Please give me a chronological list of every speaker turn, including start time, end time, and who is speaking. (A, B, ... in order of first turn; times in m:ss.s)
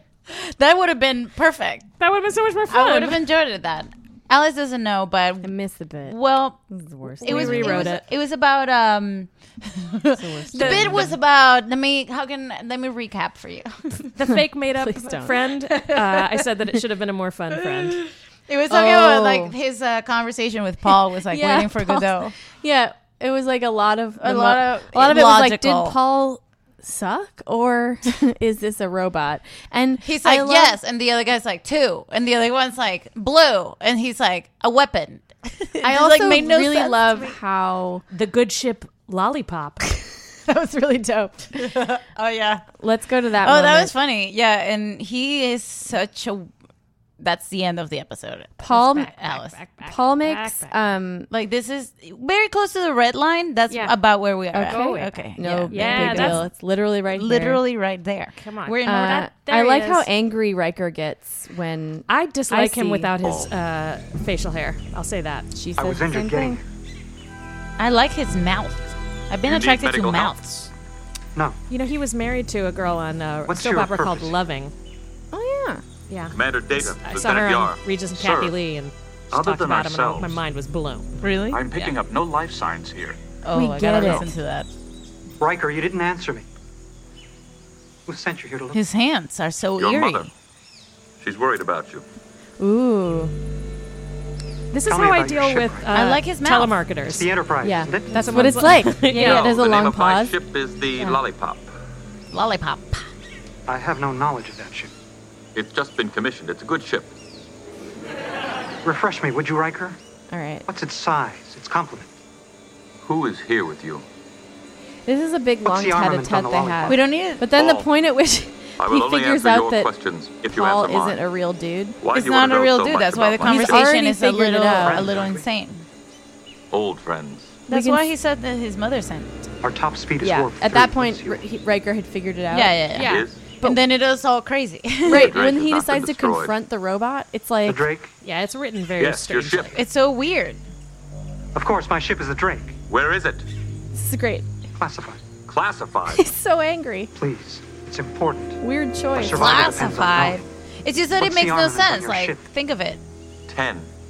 0:00.3-0:01.9 A
0:02.0-0:03.2 B
0:02.7-0:05.5 A
0:05.4-0:06.2 C
0:06.0-0:06.6 A
0:06.7-0:08.0 C
0:07.2-0:13.8 A
0:07.2-0:08.0 B
0:10.1-0:11.1 C
0:10.5-0:11.1 B
0:14.1-0:18.0 B
0:14.8-0:16.0 C
0:17.9-0:22.3 A
0:18.7-0:19.5 C
0:21.3-0:30.8 C
0:24.2-0:26.0 A
0:30.0-0:37.4 A
0:35.8-0:38.0 C
0:38.1-0:39.8 B
0:40.4-0:41.7 C
0:41.6-0:42.6 A
0:42.8-0:43.9 C
0:43.4-0:46.5 A
0:47.2-0:49.5 A
0:48.6-0:49.1 C
0:48.6-0:50.8 B
0:49.8-0:51.3 C
0:51.3-0:56.5 A
0:54.5-0:57.6 C
0:54.7-0:56.4 B
0:57.1-0:59.2 A
0:58.4-1:00.1 B
0:58.8-1:03.1 C
1:02.1-1:05.5 B
1:03.2-1:03.5 D
1:05.5-1:06.6 C
1:05.8-1:06.6 E
1:07.8-1:10.6 A
1:09.4-1:10.7 D
1:11.7-1:14.7 B
1:13.5-1:14.4 E
1:15.3-1:15.8 C
1:16.1-1:21.2 B
1:16.3-1:18.6 D
1:19.3-1:20.4 D
1:21.2-1:21.6 A
1:21.5-1:23.2 D
1:23.4-1:24.7 A
1:23.5-1:24.3 C
1:24.0-1:24.2 B
1:25.4-1:26.4 E
1:28.1-1:28.8 E
1:28.7-1:30.3 A
1:29.8-1:30.3 D
1:31.2-1:32.0 D
1:32.6-1:33.3 C
1:34.7-1:37.3 B
1:34.8-1:36.0 E
1:35.9-1:36.7 A
1:37.0-1:38.3 E
1:37.6-1:40.3 C
1:38.1-1:39.5 B
1:39.1-1:41.7 D
1:42.3-1:43.1 A
1:43.7-1:44.9 E
1:45.5-1:47.1 D
1:48.8-1:50.0 E
1:50.3-1:50.7 C
1:50.7-1:52.1 E
1:53.0-1:54.0 D
1:55.0-1:59.9 C
1:55.6-1:57.0 E
1:56.8-1:57.4 A
1:57.5-1:57.8 D
1:58.8-2:01.2 D
2:00.5-2:02.0 C
2:02.0-2:03.9 D
2:02.1-2:05.8 A
2:03.4-2:05.1 C
2:04.8-2:05.4 E
2:05.0-2:05.3 D
2:06.7-2:07.6 D
2:07.7-2:09.3 A
2:07.7-2:08.0 C
2:09.6-2:11.4 E
2:10.2-2:13.1 C
2:12.5-2:15.3 A
2:12.9-2:13.2 B
2:13.0-2:13.5 D
2:15.0-2:17.8 C
2:15.1-2:16.6 D
2:17.6-2:18.1 E
2:18.2-2:19.8 B
2:19.0-2:19.8 D
2:19.7-2:20.6 A
2:21.5-2:22.8 E
2:22.9-2:23.4 D
2:23.9-2:24.5 C
2:24.8-2:25.3 E
2:25.4-2:26.3 D
2:26.1-2:27.1 C
2:27.1-2:28.6 E
2:28.6-2:29.4 C
2:29.1-2:30.4 E
2:29.3-2:33.0 A
2:31.2-2:32.5 E
2:33.5-2:33.9 D